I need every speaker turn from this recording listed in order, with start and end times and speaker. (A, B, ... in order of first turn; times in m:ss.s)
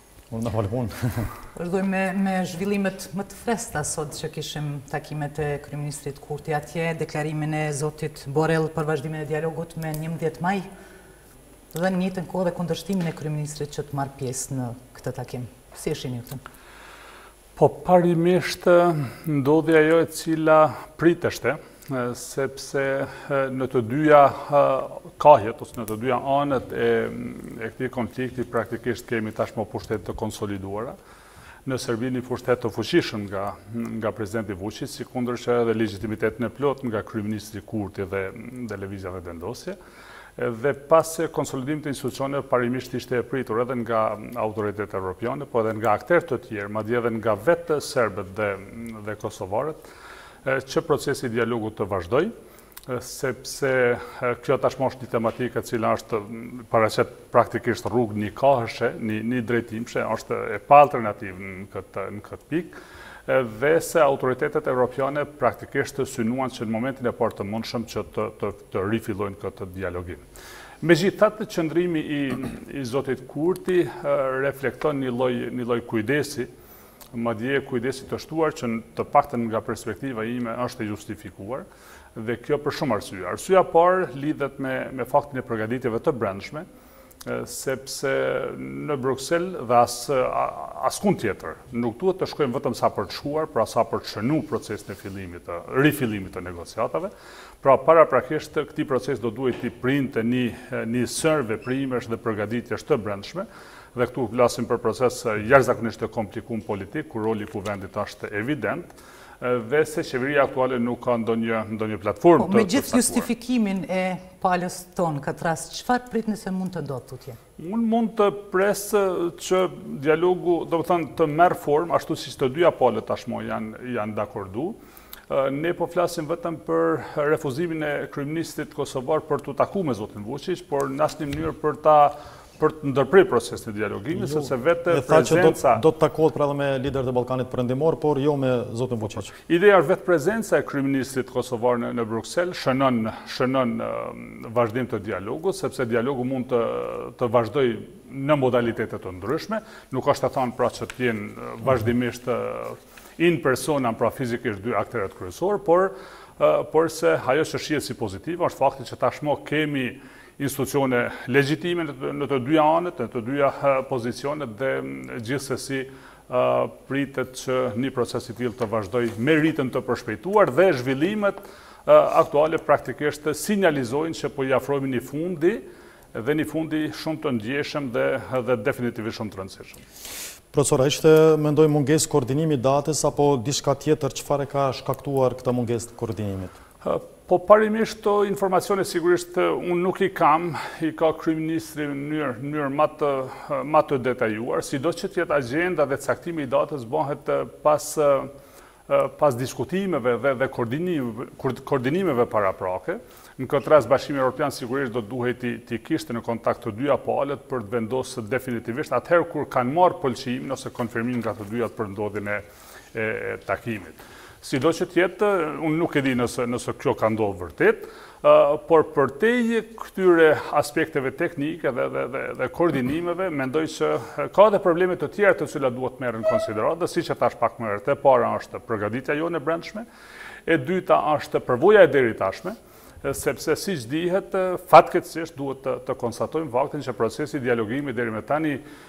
0:00.3-0:01.3 A
0:01.6-0:10.7 B
0:11.7-0:16.4 B
0:17.6-0:31.0 C
0:31.6-0:39.8 C
0:40.4-0:49.8 C
0:50.4-0:52.3 C
0:52.9-1:10.2 C
1:10.8-1:16.5 C
1:17.1-1:26.7 C
1:27.2-1:53.3 C
1:52.4-1:57.4 B
1:57.6-2:04.8 C
2:05.3-2:15.8 C
2:14.2-2:19.3 A
2:19.5-2:59.8 C
3:00.5-3:06.6 A
3:06.8-3:18.3 C
3:18.9-3:49.9 C
3:50.5-3:58.6 C